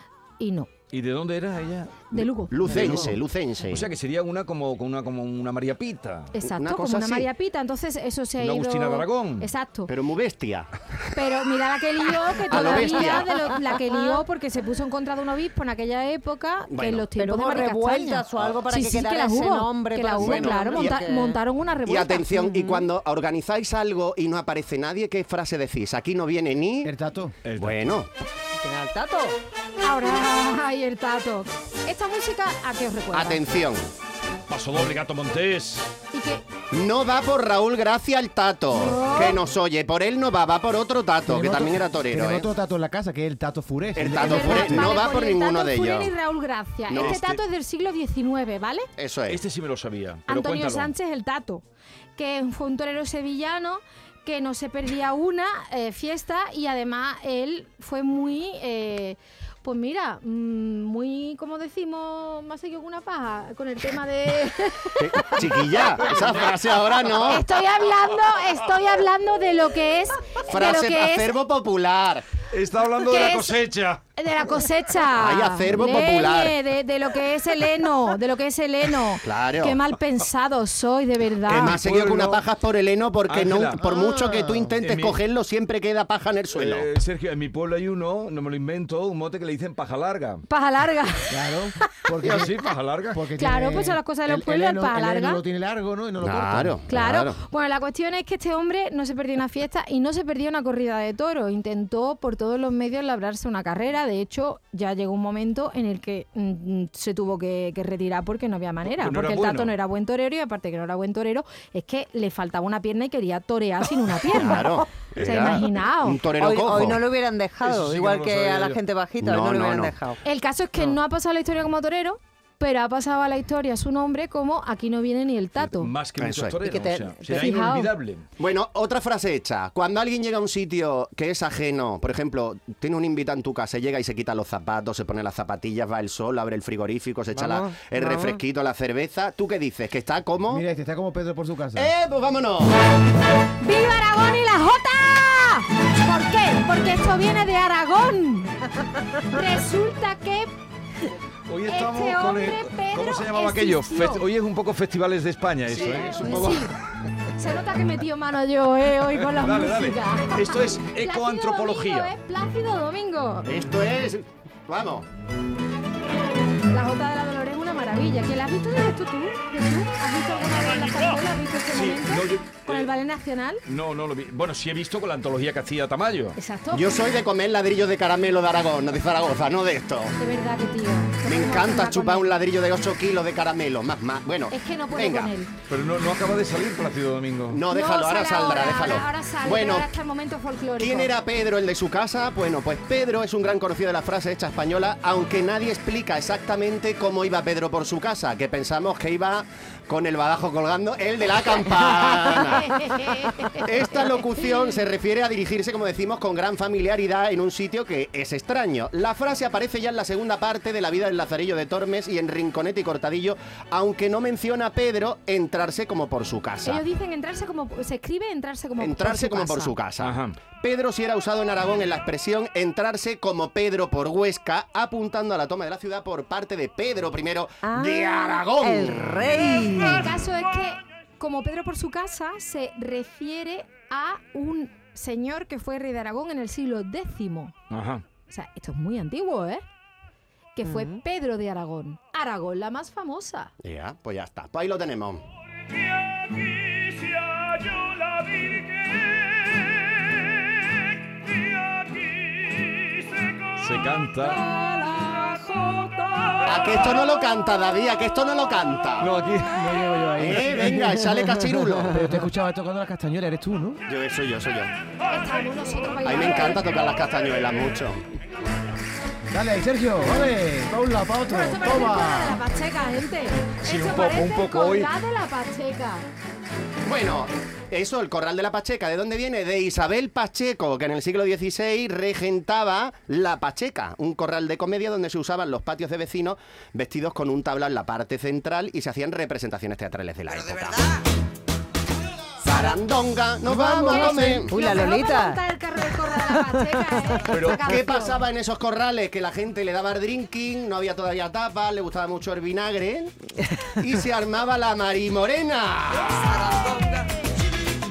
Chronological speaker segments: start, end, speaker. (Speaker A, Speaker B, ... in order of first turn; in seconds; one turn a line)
Speaker A: 0.4-0.7
Speaker B: 0.9-2.0
Speaker A: 2.1-3.1
Speaker C: 2.1-3.9
Speaker B: 2.7-3.1
Speaker B: 3.7-6.3
Speaker A: 6.3-9.9
Speaker C: 6.4-7.3
Speaker B: 8.4-9.5
Speaker C: 9.9-11.1
Speaker A: 11.1-22.4
Speaker C: 12.5-13.3
Speaker D: 12.7-13.3
Speaker C: 16.7-17.1
Speaker D: 17.2-21.4
Speaker C: 18.4-18.8
Speaker C: 20.1-21.0
Speaker C: 21.9-26.9
Speaker D: 22.4-22.9
Speaker E: 26.8-27.3
Speaker B: 27.4-27.8
Speaker C: 27.6-28.1
Speaker D: 28.6-29.4
Speaker A: 29.8-33.4
Speaker C: 33.1-33.8
Speaker B: 34.5-35.9
Speaker A: 36.1-36.4
Speaker C: 36.7-42.5
Speaker A: 38.7-39.4
Speaker E: 41.3-44.9
Speaker C: 43.9-46.1
Speaker A: 44.1-48.9
Speaker C: 46.9-47.2
Speaker B: 46.9-47.4
Speaker C: 49.0-49.4
Speaker B: 49.3-50.9
Speaker A: 50.3-51.6
Speaker A: 52.1-66.1
Speaker C: 65.0-67.4
Speaker A: 67.2-71.4
Speaker C: 70.5-72.3
Speaker B: 72.5-74.0
Speaker A: 73.0-73.6
Speaker A: 74.2-81.8
Speaker C: 75.2-76.5
Speaker C: 79.2-79.8
Speaker B: 81.5-82.4
Speaker C: 81.5-86.9
Speaker B: 83.3-83.8
Speaker E: 83.8-84.8
Speaker B: 84.8-85.2
Speaker B: 86.5-90.4
Speaker A: 90.5-91.6
Speaker E: 91.3-92.5
Speaker B: 92.2-93.2
Speaker E: 93.1-96.8
Speaker A: 93.3-95.4
Speaker C: 96.2-97.4
Speaker A: 96.9-116.2
Speaker B: 109.0-109.7
Speaker C: 114.3-117.1
Speaker D: 116.4-120.2
Speaker B: 117.6-118.8
Speaker C: 119.2-120.0
Speaker A: 120.2-125.9
Speaker B: 125.6-128.2
Speaker C: 126.2-126.6
Speaker D: 126.6-127.6
Speaker A: 127.3-127.9
Speaker C: 128.4-140.6
Speaker D: 137.3-138.4
Speaker E: 140.5-141.9
Speaker C: 141.7-142.8
Speaker A: 143.6-148.6
Speaker A: 149.2-150.5
Speaker B: 151.5-156.7
Speaker A: 151.7-154.2
Speaker C: 155.7-156.5
Speaker A: 155.7-156.7
Speaker A: 157.4-163.5
Speaker B: 159.1-162.1
Speaker C: 163.4-165.1
Speaker A: 166.7-173.6
Speaker B: 171.7-172.9
Speaker B: 173.6-176.4
Speaker A: 176.3-177.0
Speaker C: 176.7-180.1
Speaker A: 180.2-182.3
Speaker C: 181.2-185.3
Speaker A: 184.5-185.5
Speaker B: 185.7-187.6
Speaker C: 187.5-189.9
Speaker A: 187.7-191.1
Speaker C: 190.8-202.9
Speaker A: 202.6-204.6
Speaker C: 203.6-216.8
Speaker A: 216.6-219.7
Speaker C: 218.8-229.5
Speaker B: 220.0-220.4
Speaker D: 227.6-230.0
Speaker A: 229.8-237.5
Speaker B: 237.7-238.0
Speaker A: 238.3-239.6
Speaker A: 240.6-243.5
Speaker D: 240.7-240.9
Speaker C: 243.6-245.2
Speaker B: 246.3-250.2
Speaker B: 252.0-252.8
Speaker B: 253.6-254.4
Speaker A: 254.1-256.6
Speaker C: 256.4-259.1
Speaker B: 259.0-259.8
Speaker E: 259.4-261.3
Speaker C: 260.2-262.0
Speaker E: 261.9-263.8
Speaker C: 263.9-264.7
Speaker A: 265.1-266.8
Speaker C: 266.0-268.0
Speaker E: 269.3-272.4
Speaker A: 271.3-276.1
Speaker B: 273.6-274.9
Speaker C: 276.8-290.8
Speaker A: 292.4-292.8
Speaker C: 292.4-294.8
Speaker D: 293.6-295.4
Speaker A: 293.7-298.2
Speaker B: 297.3-297.7
Speaker C: 297.5-303.1
Speaker C: 303.8-306.8